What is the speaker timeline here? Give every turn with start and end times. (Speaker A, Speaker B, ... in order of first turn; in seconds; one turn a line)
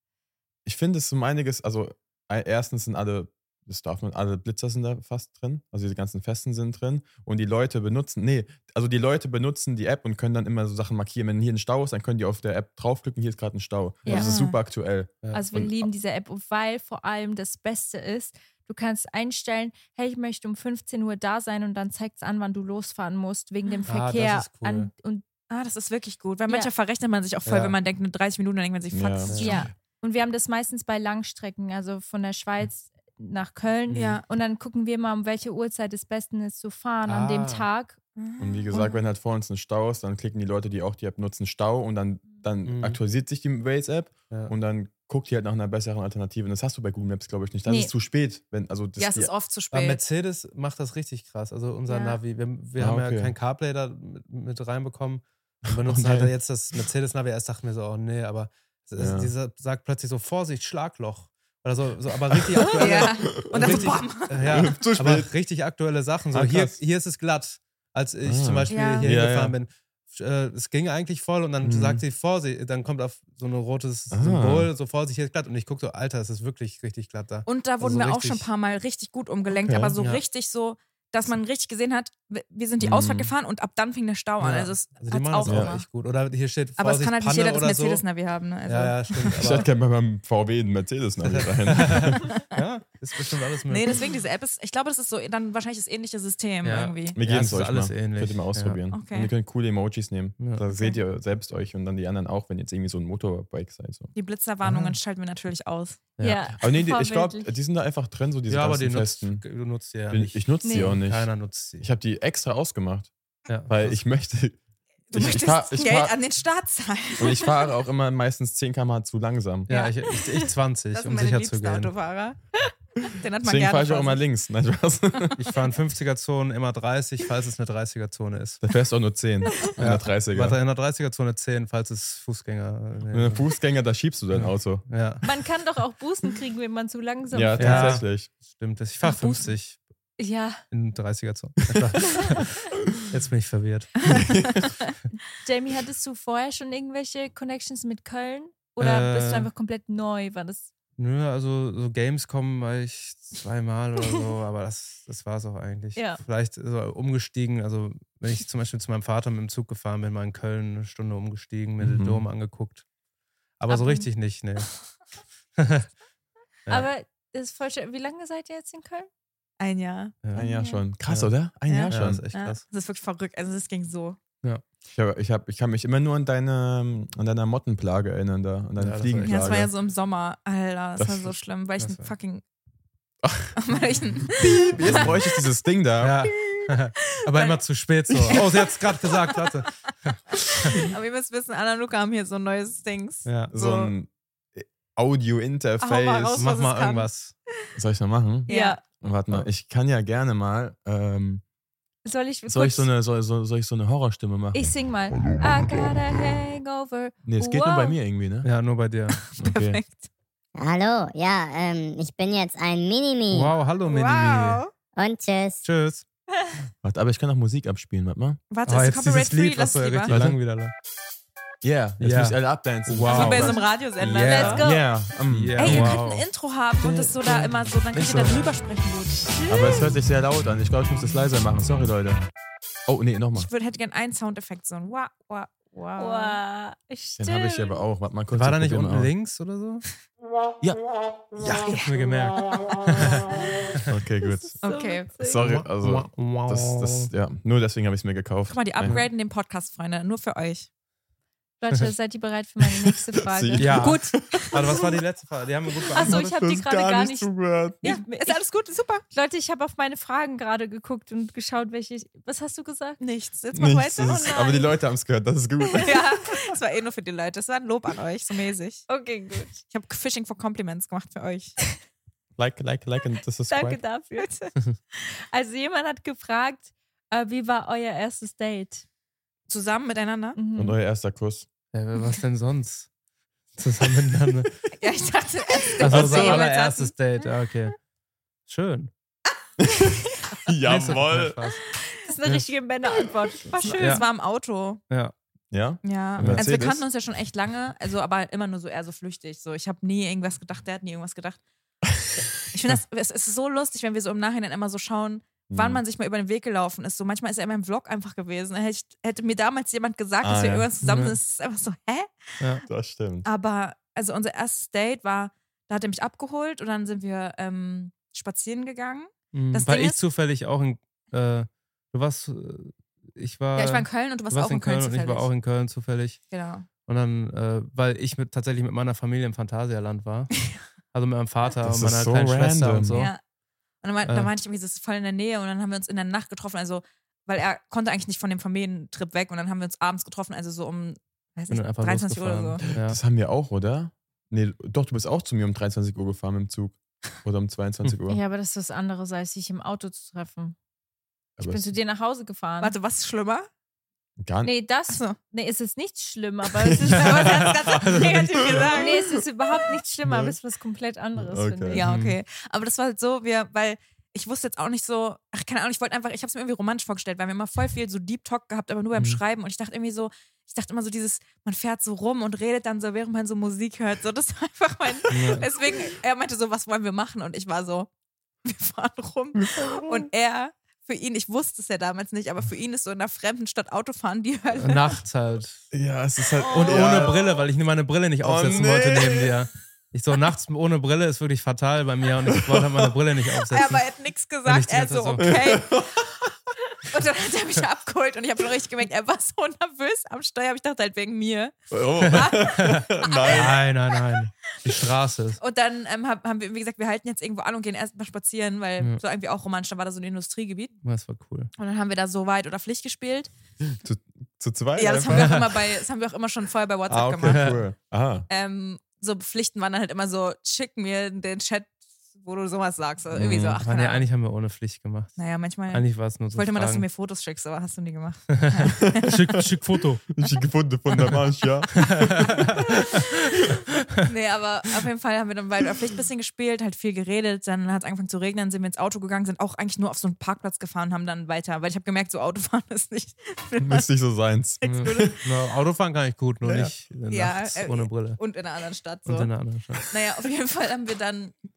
Speaker A: 0.7-15.8
Speaker B: 14.1-14.3
Speaker C: 14.1-14.6
Speaker B: 15.3-25.2
Speaker D: 23.9-24.9
Speaker C: 25.5-29.6
Speaker D: 27.4-27.8
Speaker A: 28.9-29.6
Speaker D: 29.3-29.6
Speaker B: 29.4-38.0
Speaker D: 33.9-34.2
Speaker C: 33.9-34.2
Speaker D: 37.0-37.7
Speaker C: 38.2-39.0
Speaker A: 38.4-49.3
Speaker D: 42.6-43.0
Speaker B: 47.7-47.9
Speaker C: 49.0-50.0
Speaker D: 49.7-78.5
Speaker B: 51.9-52.2
Speaker A: 52.8-53.4
Speaker A: 55.7-56.3
Speaker A: 59.0-59.3
Speaker A: 62.5-63.9
Speaker C: 62.8-64.7
Speaker A: 64.4-65.3
Speaker A: 66.3-66.8
Speaker A: 68.2-69.5
Speaker C: 68.7-69.1
Speaker A: 71.6-72.0
Speaker A: 74.1-74.7
Speaker C: 77.5-85.8
Speaker A: 79.5-80.0
Speaker A: 82.8-83.3
Speaker D: 84.4-88.0
Speaker A: 85.4-85.7
Speaker C: 86.8-89.3
Speaker D: 88.6-89.7
Speaker A: 89.3-92.3
Speaker D: 91.2-94.0
Speaker C: 93.7-97.2
Speaker D: 96.6-98.8
Speaker A: 97.1-104.1
Speaker C: 98.9-99.3
Speaker D: 100.4-100.6
Speaker C: 104.1-106.0
Speaker D: 104.6-105.0
Speaker B: 106.2-107.5
Speaker A: 106.5-109.5
Speaker D: 108.5-111.9
Speaker A: 110.1-113.1
Speaker B: 110.6-111.0
Speaker D: 113.5-114.0
Speaker A: 113.7-114.6
Speaker C: 115.1-117.5
Speaker A: 115.1-116.2
Speaker A: 117.2-119.7
Speaker D: 119.7-121.9
Speaker B: 119.7-120.5
Speaker C: 120.9-122.4
Speaker C: 123.1-124.2
Speaker A: 123.4-125.5
Speaker D: 125.4-128.6
Speaker A: 128.6-130.6
Speaker D: 129.8-133.4
Speaker A: 133.1-134.8
Speaker D: 134.3-135.2
Speaker B: 135.2-138.0
Speaker A: 137.3-138.3
Speaker D: 137.6-139.8
Speaker B: 139.0-139.4
Speaker B: 140.2-140.6
Speaker D: 140.7-144.1
Speaker A: 144.1-144.7
Speaker B: 145.4-150.7
Speaker D: 148.8-149.5
Speaker D: 151.0-162.8
Speaker B: 155.9-156.2
Speaker A: 161.8-162.3
Speaker D: 163.6-164.7
Speaker B: 163.7-164.0
Speaker D: 165.6-165.9
Speaker B: 166.7-169.1
Speaker C: 169.6-170.2
Speaker D: 170.2-170.5
Speaker A: 170.3-172.2
Speaker B: 170.4-170.8
Speaker D: 171.1-171.3
Speaker C: 171.7-174.2
Speaker D: 171.9-172.6
Speaker A: 174.9-179.7
Speaker D: 178.8-179.6
Speaker C: 179.2-182.4
Speaker A: 181.0-181.3
Speaker D: 181.8-182.1
Speaker A: 183.2-183.6
Speaker C: 183.6-185.1
Speaker A: 184.3-186.3
Speaker D: 184.8-185.1
Speaker D: 186.0-190.8
Speaker C: 187.2-187.6
Speaker A: 188.1-188.5
Speaker C: 188.3-189.5
Speaker C: 190.5-193.9
Speaker D: 193.2-193.5
Speaker A: 193.5-196.5
Speaker C: 195.8-197.1
Speaker D: 196.4-197.3
Speaker A: 197.7-201.4
Speaker C: 198.5-198.8
Speaker B: 198.5-198.8
Speaker B: 202.0-202.9
Speaker A: 202.5-204.7
Speaker B: 204.5-207.9
Speaker A: 207.2-208.5
Speaker D: 208.4-209.3
Speaker C: 209.2-210.1
Speaker A: 209.4-209.8
Speaker E: 210.6-213.5
Speaker D: 213.3-214.6
Speaker C: 213.8-214.7
Speaker E: 214.9-215.6
Speaker D: 215.6-216.0
Speaker A: 216.8-218.4
Speaker C: 218.5-220.1
Speaker D: 218.7-220.7
Speaker A: 220.1-220.4
Speaker A: 221.6-223.6
Speaker D: 222.0-224.7
Speaker C: 223.1-224.7
Speaker B: 224.2-224.8
Speaker A: 224.5-226.0
Speaker D: 225.3-226.2
Speaker C: 225.6-229.6
Speaker A: 226.8-228.5
Speaker D: 228.1-228.4
Speaker B: 229.3-229.9
Speaker A: 229.5-232.3
Speaker A: 232.9-233.5
Speaker C: 233.3-236.4
Speaker B: 236.0-237.8
Speaker A: 237.2-239.1
Speaker D: 238.3-239.8
Speaker D: 241.4-243.8
Speaker C: 241.7-242.1
Speaker A: 243.8-244.6
Speaker B: 244.5-245.5
Speaker C: 244.6-245.1
Speaker A: 245.2-249.0
Speaker D: 245.4-247.1
Speaker C: 248.5-250.7
Speaker B: 251.6-253.8
Speaker A: 252.9-254.9
Speaker D: 253.6-256.2
Speaker C: 253.8-254.6
Speaker B: 255.9-257.3
Speaker A: 256.0-257.9
Speaker B: 257.8-258.4
Speaker C: 257.8-259.0
Speaker B: 259.1-263.0
Speaker C: 263.0-264.6
Speaker A: 263.5-266.1
Speaker B: 264.3-264.6
Speaker C: 265.8-268.9
Speaker B: 268.9-269.6
Speaker C: 269.7-271.6
Speaker A: 272.4-273.8
Speaker B: 273.5-274.3
Speaker C: 274.2-274.5
Speaker B: 275.0-278.8
Speaker C: 279.5-280.4
Speaker B: 280.4-280.8
Speaker A: 280.5-281.5
Speaker D: 281.7-282.9
Speaker D: 283.6-284.5
Speaker C: 284.8-286.9
Speaker A: 285.8-286.4
Speaker D: 285.8-287.8
Speaker D: 288.5-288.9
Speaker A: 289.6-291.4
Speaker D: 290.6-291.6
Speaker B: 292.0-294.0
Speaker C: 293.5-294.8
Speaker D: 293.8-294.1
Speaker A: 295.5-296.9
Speaker C: 295.8-301.4
Speaker D: 296.2-296.5
Speaker C: 302.5-312.6
Speaker A: 305.5-305.8
Speaker A: 310.2-310.7
Speaker D: 310.8-311.2
Speaker A: 312.6-313.3
Speaker C: 313.2-320.0
Speaker D: 319.3-326.2
Speaker C: 323.6-325.3
Speaker C: 326.3-326.7
Speaker D: 326.9-333.1
Speaker A: 331.6-333.0
Speaker C: 332.9-333.2
Speaker C: 333.8-342.6
Speaker D: 334.1-334.3
Speaker D: 341.5-343.0
Speaker A: 342.7-348.2
Speaker B: 348.1-350.5
Speaker A: 351.4-351.8
Speaker B: 351.4-352.7
Speaker C: 352.6-353.5
Speaker A: 354.2-354.5
Speaker B: 354.4-357.5
Speaker C: 354.9-355.2
Speaker A: 356.6-359.1
Speaker C: 356.9-358.9
Speaker D: 357.8-358.6
Speaker B: 358.7-361.8
Speaker A: 360.0-360.4
Speaker A: 361.1-361.9
Speaker C: 361.7-377.9
Speaker D: 361.8-362.2
Speaker D: 375.1-375.5
Speaker C: 378.4-385.0
Speaker A: 379.4-380.1
Speaker D: 384.6-385.7
Speaker A: 385.7-387.4
Speaker D: 386.5-393.8
Speaker C: 386.6-387.1
Speaker A: 388.2-389.4
Speaker A: 392.3-392.9
Speaker C: 393.5-395.8
Speaker D: 394.4-395.3
Speaker A: 395.2-396.3
Speaker C: 396.8-401.6
Speaker A: 401.7-403.7
Speaker D: 402.1-405.4
Speaker C: 402.1-403.6
Speaker C: 405.4-410.7
Speaker D: 410.8-411.5
Speaker C: 411.6-413.3
Speaker A: 413.6-415.4
Speaker C: 414.8-417.5
Speaker D: 415.1-415.4
Speaker A: 416.9-418.3
Speaker D: 417.2-417.6
Speaker C: 418.3-424.1
Speaker A: 423.1-423.6
Speaker D: 423.6-426.9
Speaker C: 425.2-429.1
Speaker D: 428.3-430.0
Speaker A: 428.8-429.5
Speaker A: 430.1-433.0
Speaker D: 431.8-433.1
Speaker C: 434.0-443.9
Speaker A: 443.6-445.2
Speaker C: 444.6-445.2
Speaker D: 444.6-448.2
Speaker A: 446.4-446.7
Speaker C: 447.1-449.3
Speaker D: 449.1-449.9
Speaker C: 449.8-451.3